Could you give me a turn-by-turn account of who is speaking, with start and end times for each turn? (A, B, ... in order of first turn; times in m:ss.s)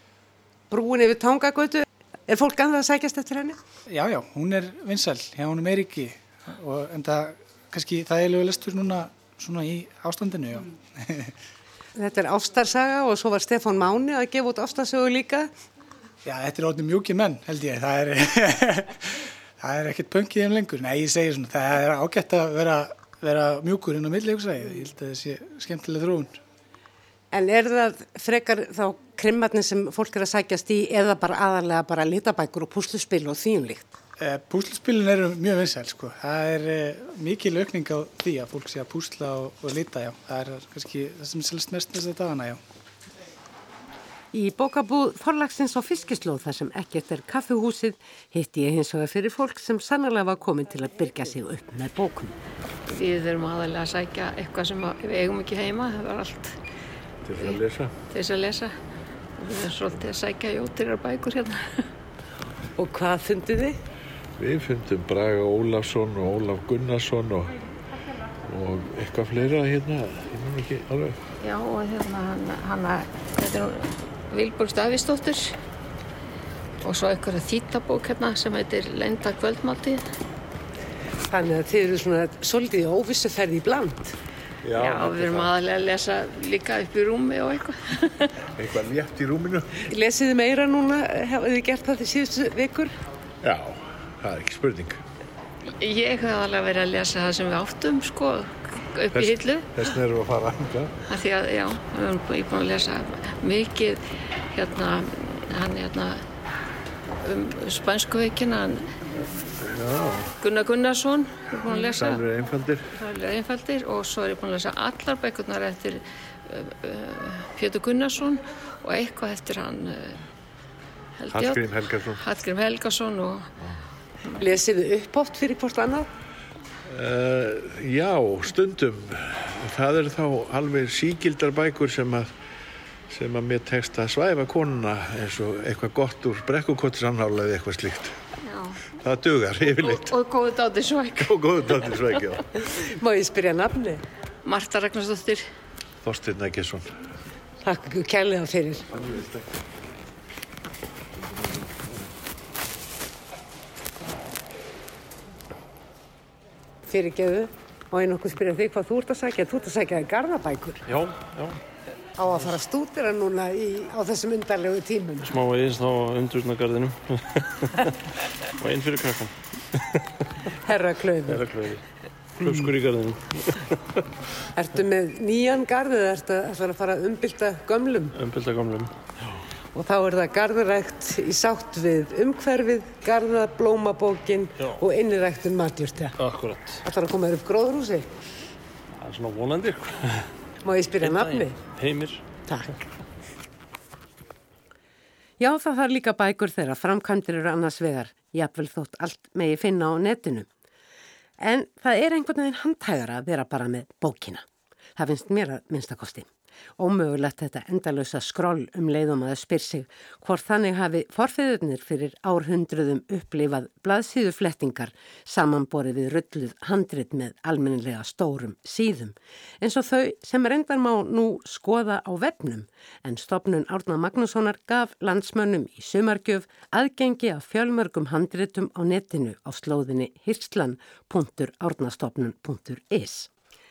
0:00.7-0:03.6 A
0:03.9-0:11.3 B
0:12.0-0:15.5 A
0:16.2-0:26.4 B
0:27.3-0:34.0 A
0:34.2-0:42.6 B
0:44.3-0:52.4 A
0:52.9-0:56.6 C
0:57.2-0:57.9 D
0:57.4-0:58.7 C
0:59.4-1:01.9 C
1:02.8-1:03.8 A
1:04.4-1:07.6 D
1:08.4-1:11.2 D
1:11.4-1:15.6 C
1:16.8-1:20.0 C
1:21.3-1:24.2 A
1:24.6-1:25.5 D
1:24.7-1:28.3 C
1:28.5-1:29.8 D
1:29.8-1:33.0 A
1:33.4-1:35.0 D
1:35.7-1:40.0 C
1:39.1-1:40.9 D
1:41.1-1:46.2 C
1:47.2-1:48.9 C
1:49.6-1:50.3 D
1:50.4-1:52.2 C
1:51.7-1:52.9 D
1:52.9-2:00.2 C
2:01.2-2:03.5 C
2:01.3-2:02.2 D
2:04.4-2:06.1 A
2:06.9-2:12.3 D
2:13.1-2:18.2 D
2:18.4-2:18.8 C
2:19.0-2:20.1 D
2:19.8-2:22.2 C
2:21.2-2:22.4 D
2:23.0-2:24.0 A
2:24.4-2:25.5 C
2:26.0-2:27.0 D
2:27.6-2:28.9 A
2:29.0-2:29.4 D
2:36.9-2:40.8 A
2:40.8-2:41.6 E
2:42.2-2:45.3 A
2:45.2-2:47.9 E
2:48.6-2:49.8 E
2:50.6-2:51.4 A
2:51.3-2:51.8 E
2:52.4-2:53.6 E
2:54.5-2:58.1 A
2:58.1-2:59.4 E
2:59.7-3:06.2 A
3:06.2-3:06.8 E
3:06.8-3:08.2 A
3:09.0-3:10.3 E
3:10.6-3:11.6 A
3:11.0-3:12.2 E
3:15.4-3:20.5 A
3:21.4-3:24.4 A
3:25.0-3:53.3 A